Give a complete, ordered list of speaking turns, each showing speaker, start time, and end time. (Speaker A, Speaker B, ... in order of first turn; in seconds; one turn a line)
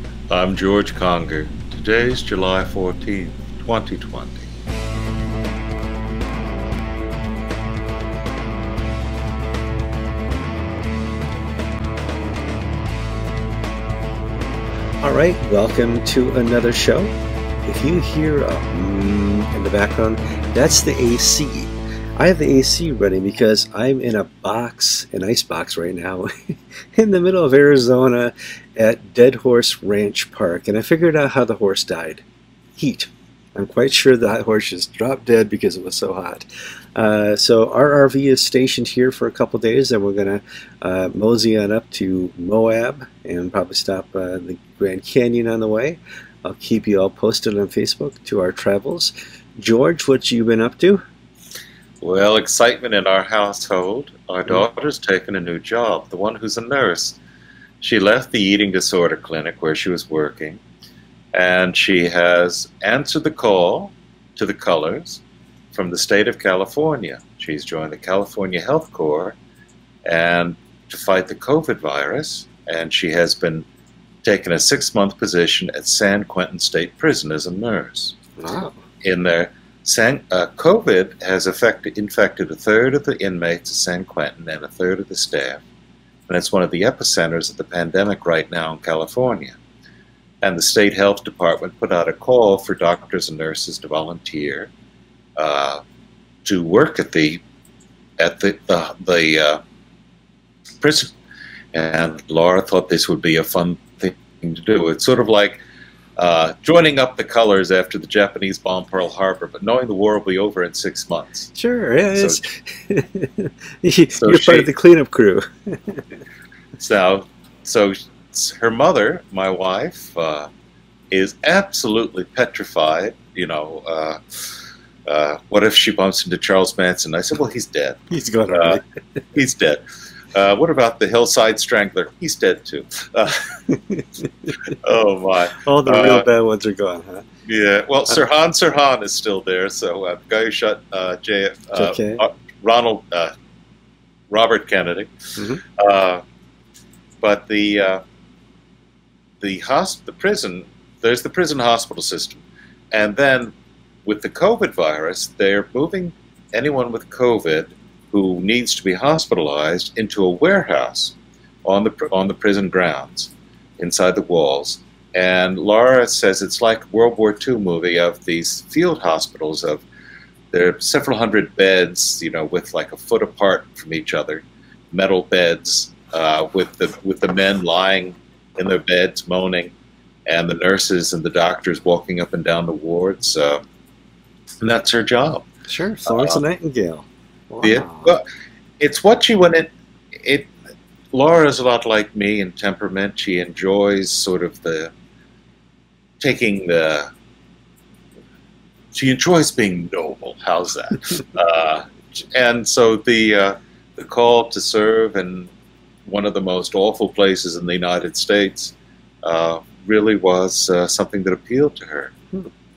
Speaker A: 0.3-4.5
Speaker B: 15.0-17.1
Speaker B: 17.6-32.2
Speaker B: 32.8-51.0
Speaker A: 52.0-57.2
Speaker A: 57.8-60.6
Speaker A: 61.3-65.2
Speaker A: 65.7-69.4
Speaker A: 70.0-73.7
Speaker A: 74.2-78.2
Speaker B: 78.4-78.8
Speaker A: 79.0-85.6
Speaker A: 86.3-89.6
Speaker A: 90.4-94.7
Speaker A: 95.4-95.8
Speaker A: 96.4-97.4
Speaker A: 98.2-99.6
Speaker A: 100.8-101.1
Speaker A: 101.7-105.6
Speaker A: 106.2-111.5
Speaker B: 111.5-116.0
Speaker A: 112.2-112.4
Speaker A: 114.2-114.7
Speaker A: 116.8-120.5
Speaker A: 121.1-124.2
Speaker A: 125.1-128.0
Speaker B: 128.1-128.8
Speaker A: 128.5-128.8
Speaker A: 129.3-129.8
Speaker A: 130.3-133.6
Speaker B: 133.7-134.0
Speaker A: 134.7-136.3
Speaker B: 135.6-137.3
Speaker A: 137.5-143.3
Speaker B: 141.8-142.2
Speaker A: 144.3-145.1
Speaker A: 145.7-146.2
Speaker A: 147.2-148.0
Speaker A: 149.4-153.5
Speaker A: 154.1-169.8
Speaker A: 170.5-179.7
Speaker A: 180.3-183.6
Speaker A: 184.6-185.4
Speaker B: 185.7-188.2
Speaker A: 186.1-186.4
Speaker A: 187.6-188.2
Speaker A: 188.8-190.5
Speaker A: 191.1-194.9
Speaker A: 196.2-197.1
Speaker A: 198.9-205.5
Speaker A: 206.1-212.1